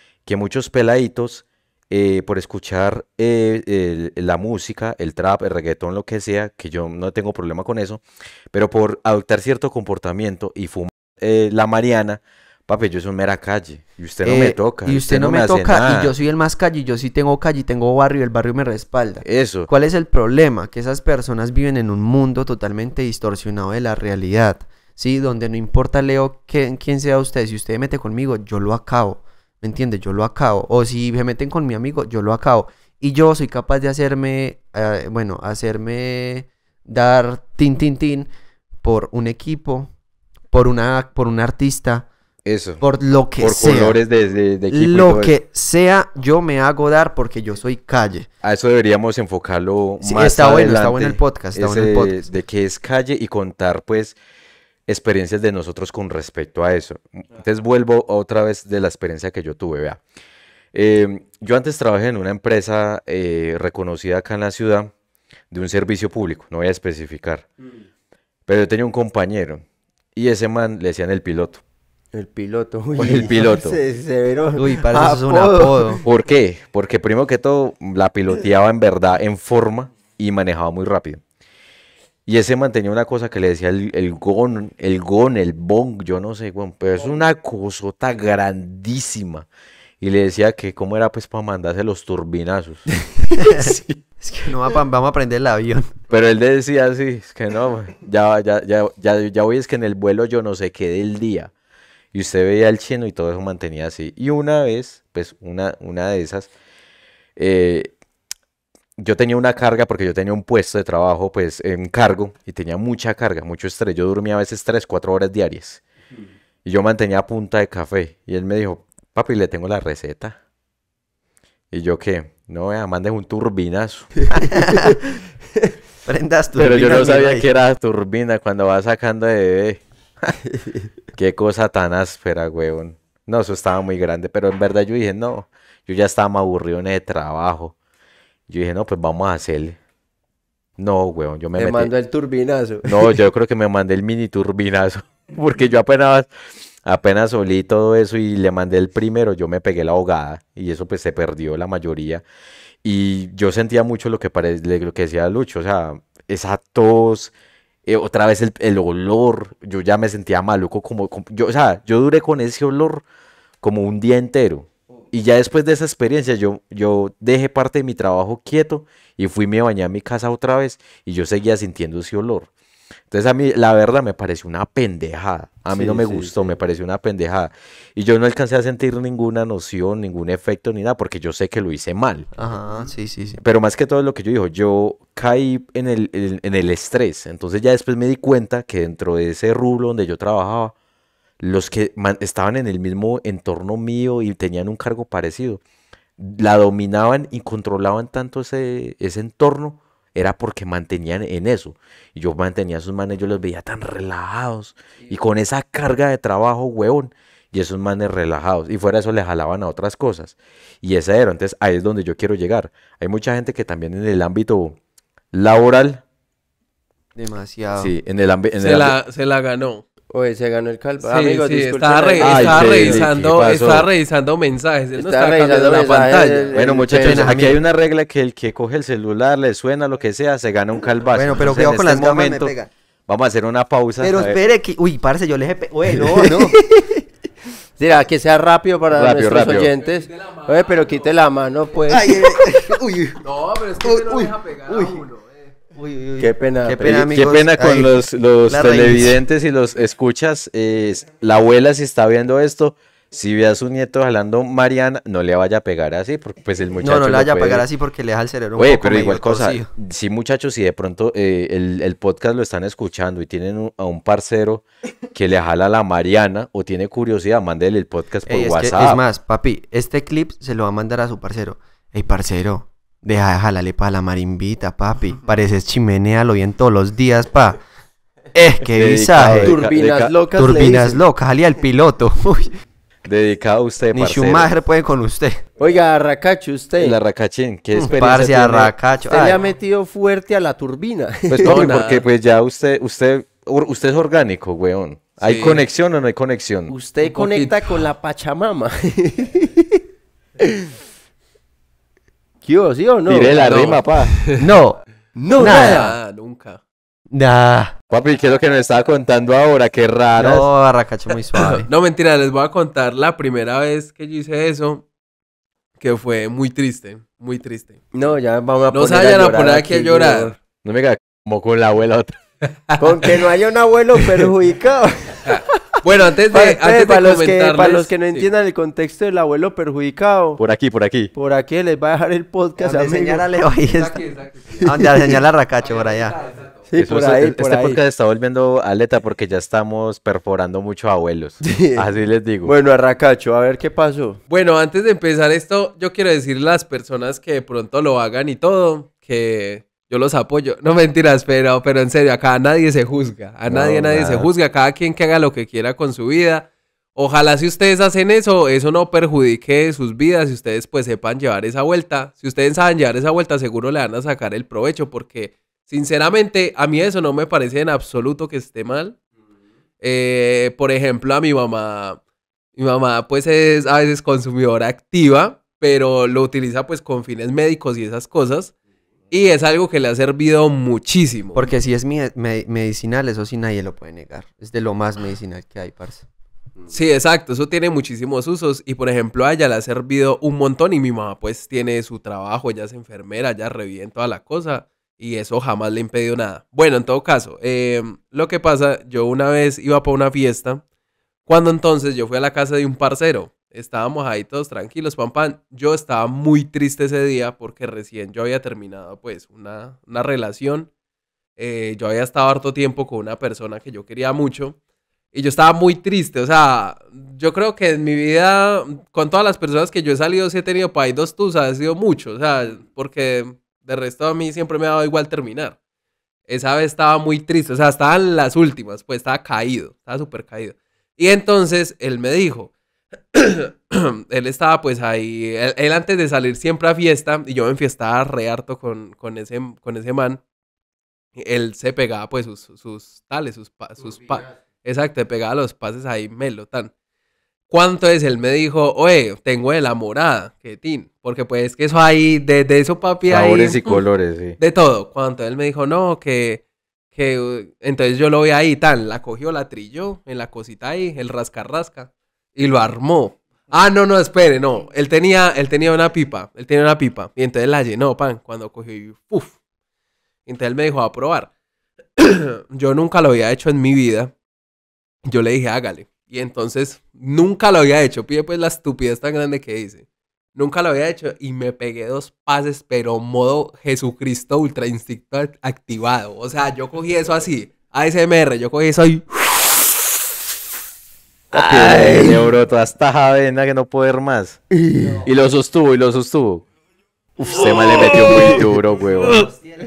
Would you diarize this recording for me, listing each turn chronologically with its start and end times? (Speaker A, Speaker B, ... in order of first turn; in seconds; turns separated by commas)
Speaker A: 0.3-16.1, Speaker B: 14.2-38.3, Speaker A: 19.2-19.7, Speaker B: 38.8-39.9, Speaker B: 40.5-42.1, Speaker A: 42.5-42.8, Speaker B: 42.8-44.0, Speaker A: 43.4-45.3, Speaker B: 44.7-48.3, Speaker A: 48.4-54.2, Speaker B: 50.0-52.2, Speaker A: 54.9-60.0, Speaker A: 60.7-64.9, Speaker A: 65.5-67.5, Speaker A: 68.5-69.6, Speaker A: 70.2-71.6, Speaker C: 72.1-75.9, Speaker A: 73.0-73.8, Speaker B: 74.6-76.0, Speaker A: 76.0-81.2, Speaker A: 82.3-89.5, Speaker A: 90.0-94.0, Speaker B: 93.3-96.0, Speaker A: 96.1-101.5, Speaker A: 102.1-106.5, Speaker A: 107.4-107.9, Speaker A: 109.0-115.8, Speaker A: 116.7-120.4, Speaker A: 121.7-124.1, Speaker B: 124.3-125.2, Speaker B: 126.0-127.5, Speaker A: 126.5-129.8, Speaker C: 130.5-130.8, Speaker A: 131.1-137.8, Speaker A: 138.5-139.8, Speaker A: 140.8-141.9, Speaker C: 141.6-143.1, Speaker A: 142.9-146.3, Speaker A: 146.8-152.2, Speaker A: 152.8-157.3, Speaker A: 157.9-163.0, Speaker A: 163.6-172.5, Speaker A: 173.1-182.3, Speaker C: 175.7-176.5, Speaker B: 182.3-183.4, Speaker A: 183.4-190.7, Speaker A: 191.4-195.6, Speaker A: 196.2-214.8, Speaker A: 215.3-216.0, Speaker B: 217.2-217.9, Speaker A: 217.8-218.9, Speaker D: 218.6-219.8, Speaker C: 220.1-223.1, Speaker D: 221.0-226.5, Speaker A: 222.2-223.9, Speaker C: 225.0-227.3, Speaker A: 226.6-232.5, Speaker B: 226.9-227.6, Speaker B: 231.2-232.7, Speaker A: 233.1-234.4, Speaker B: 234.0-236.6, Speaker C: 235.9-236.9, Speaker C: 237.8-242.6, Speaker A: 238.9-239.7, Speaker D: 239.5-241.1, Speaker B: 241.9-243.2, Speaker D: 243.2-245.5, Speaker B: 243.8-245.0, Speaker B: 245.8-247.9, Speaker C: 246.2-247.1, Speaker A: 246.9-257.6, Speaker B: 248.5-249.2, Speaker B: 256.8-259.7, Speaker A: 258.6-269.0, Speaker B: 268.3-277.6, Speaker B: 278.3-279.6, Speaker A: 278.6-280.2, Speaker C: 279.4-281.0, Speaker B: 280.4-282.5, Speaker A: 283.1-284.5, Speaker B: 283.9-285.4, Speaker C: 285.6-287.0, Speaker A: 286.8-288.7, Speaker B: 287.8-289.4, Speaker C: 289.1-291.8, Speaker A: 291.3-296.7, Speaker D: 291.5-292.0, Speaker D: 295.2-295.6, Speaker C: 296.7-299.8, Speaker D: 297.0-297.8, Speaker C: 302.5-303.4, Speaker A: 303.1-304.2, Speaker D: 303.4-304.4, Speaker B: 304.4-304.8, Speaker C: 305.1-305.9, Speaker D: 305.3-306.6, Speaker B: 305.4-305.9, Speaker B: 307.1-307.7, Speaker A: 307.9-310.5, Speaker B: 310.2-311.7, Speaker D: 311.4-314.9, Speaker D: 315.8-317.8, Speaker C: 317.9-320.4, Speaker D: 318.7-320.3, Speaker A: 320.6-322.2, Speaker C: 322.8-325.8, Speaker D: 325.3-328.3, Speaker C: 326.3-330.4, Speaker A: 330.4-331.1, Speaker C: 331.1-333.3, Speaker B: 332.6-334.1, Speaker D: 333.7-334.7, Speaker C: 334.5-335.2, Speaker B: 334.6-336.2, Speaker D: 335.6-336.6, Speaker C: 336.7-337.8, Speaker A: 336.8-342.5, Speaker C: 341.4-341.8, Speaker C: 342.4-344.2, Speaker D: 344.3-369.0, Speaker A: 353.5-354.3, Speaker D: 369.8-372.0, Speaker D: 372.6-378.5, Speaker D: 379.1-381.4, Speaker B: 381.4-386.1, Speaker D: 386.7-400.6, Speaker D: 401.3-410.7, Speaker D: 411.4-414.6, Speaker D: 415.1-425.6, Speaker D: 426.3-432.5, Speaker D: 433.1-440.2, Speaker D: 441.2-446.7, Speaker D: 447.5-453.8, Speaker A: 453.1-454.4, Speaker D: 454.4-456.4, Speaker D: 456.9-469.3, Speaker D: 470.3-471.3, Speaker D: 472.0-474.1, Speaker D: 475.1-489.7, Speaker A: 491.3-494.4, Speaker C: 491.3-492.2, Speaker C: 494.5-495.0, Speaker A: 495.0-496.4, Speaker C: 497.2-498.4, Speaker A: 497.2-499.3, Speaker D: 497.4-498.4